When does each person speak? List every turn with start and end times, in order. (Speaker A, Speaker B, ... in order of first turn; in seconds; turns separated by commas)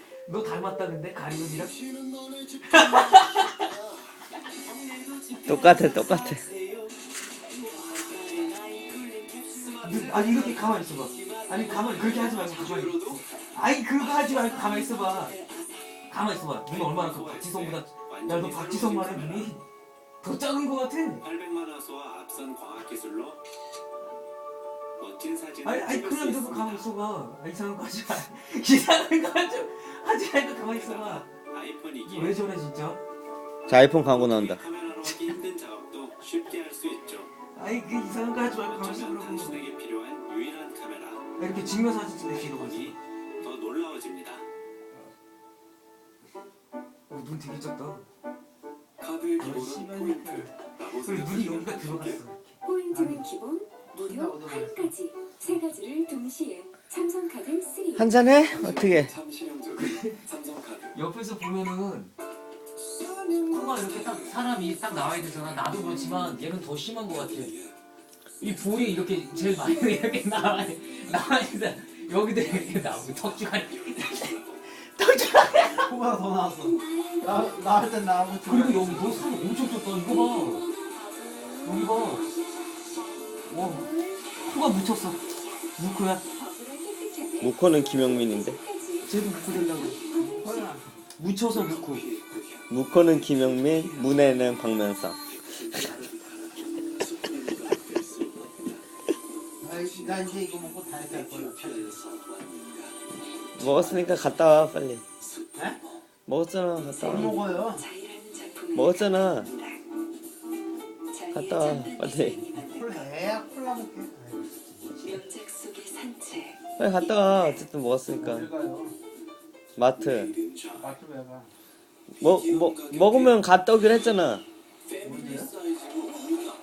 Speaker A: 0.3-1.7, Speaker A: 2.7-3.7, Speaker B: 5.2-5.9, Speaker C: 5.5-6.5, Speaker B: 7.8-10.6, Speaker A: 9.8-15.4, Speaker B: 11.6-13.2, Speaker A: 16.1-19.6, Speaker B: 16.7-19.5, Speaker A: 20.2-21.2, Speaker B: 21.2-23.4, Speaker B: 25.0-26.9, Speaker A: 25.6-31.3, Speaker B: 30.8-32.4, Speaker A: 32.0-33.0, Speaker C: 33.7-34.6, Speaker B: 34.3-37.3, Speaker A: 37.5-39.6, Speaker B: 38.7-41.3, Speaker A: 41.4-43.0, Speaker B: 42.5-44.4, Speaker A: 47.1-48.0, Speaker B: 49.0-52.2, Speaker A: 49.4-52.6, Speaker D: 52.9-53.4, Speaker E: 53.4-57.9, Speaker D: 53.9-55.0, Speaker C: 57.9-59.1, Speaker B: 58.6-60.9, Speaker A: 59.7-60.2, Speaker A: 60.9-62.1, Speaker A: 63.5-67.6, Speaker A: 68.4-75.9, Speaker B: 73.9-74.5, Speaker D: 75.8-79.3, Speaker A: 78.4-80.7, Speaker A: 81.6-82.3, Speaker A: 83.5-83.9, Speaker A: 84.5-85.2, Speaker A: 85.8-86.2, Speaker E: 86.5-87.4, Speaker C: 87.4-88.6, Speaker A: 89.0-90.0, Speaker D: 90.2-90.9, Speaker A: 91.2-92.1, Speaker B: 92.1-92.3, Speaker C: 92.7-95.2, Speaker D: 99.6-102.0, Speaker B: 102.0-102.7, Speaker C: 103.6-105.0, Speaker C: 106.3-107.4, Speaker D: 107.0-107.9, Speaker E: 108.0-108.8, Speaker C: 108.8-109.5, Speaker C: 111.3-112.5, Speaker E: 111.3-112.7, Speaker D: 112.7-114.5, Speaker E: 115.1-116.5, Speaker C: 116.8-118.5, Speaker D: 118.2-119.0, Speaker C: 119.8-120.3, Speaker D: 120.7-121.5, Speaker C: 122.2-124.4, Speaker D: 125.0-125.5